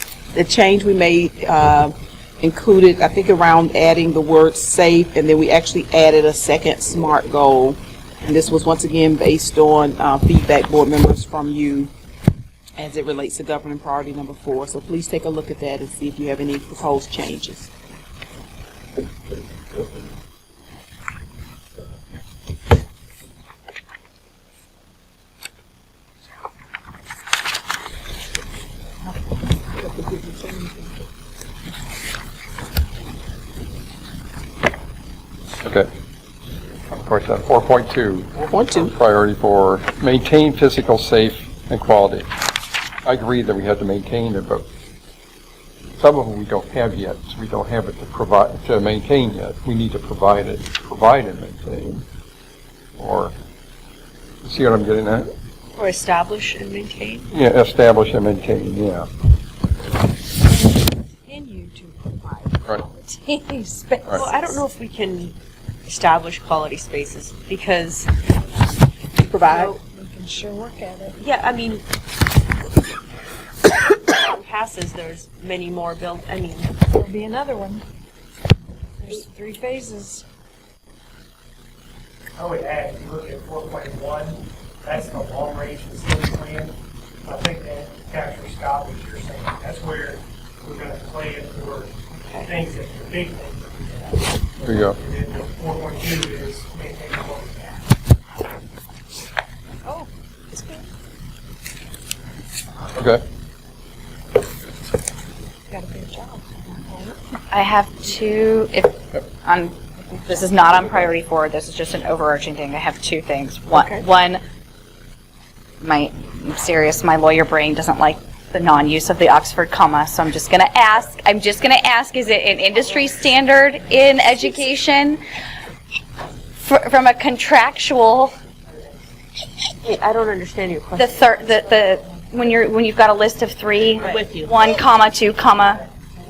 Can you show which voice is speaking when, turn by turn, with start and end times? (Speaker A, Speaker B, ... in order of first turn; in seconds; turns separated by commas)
Speaker A: 0.3-11.9, Speaker A: 12.8-17.7, Speaker A: 29.9-30.8, Speaker B: 36.9-42.3, Speaker A: 38.4-38.9, Speaker B: 43.0-44.6, Speaker B: 46.0-52.0, Speaker B: 53.0-53.3, Speaker B: 54.4-55.3, Speaker C: 55.8-57.3, Speaker B: 57.3-59.1, Speaker D: 60.5-64.6, Speaker C: 64.1-65.3, Speaker C: 65.8-68.1, Speaker A: 69.2-69.7, Speaker C: 69.4-69.8, Speaker D: 69.7-71.2, Speaker C: 71.2-71.8, Speaker C: 74.0-76.7, Speaker D: 76.9-77.8, Speaker D: 79.0-80.2, Speaker E: 82.4-86.7, Speaker E: 87.2-97.9, Speaker C: 92.2-92.5, Speaker B: 94.7-95.0, Speaker D: 99.9-100.8, Speaker B: 102.9-103.2, Speaker D: 105.7-107.1, Speaker F: 107.5-114.4, Speaker F: 115.8-125.2, Speaker F: 126.6-128.3, Speaker C: 129.8-131.3, Speaker F: 130.9-135.8, Speaker C: 134.0-134.5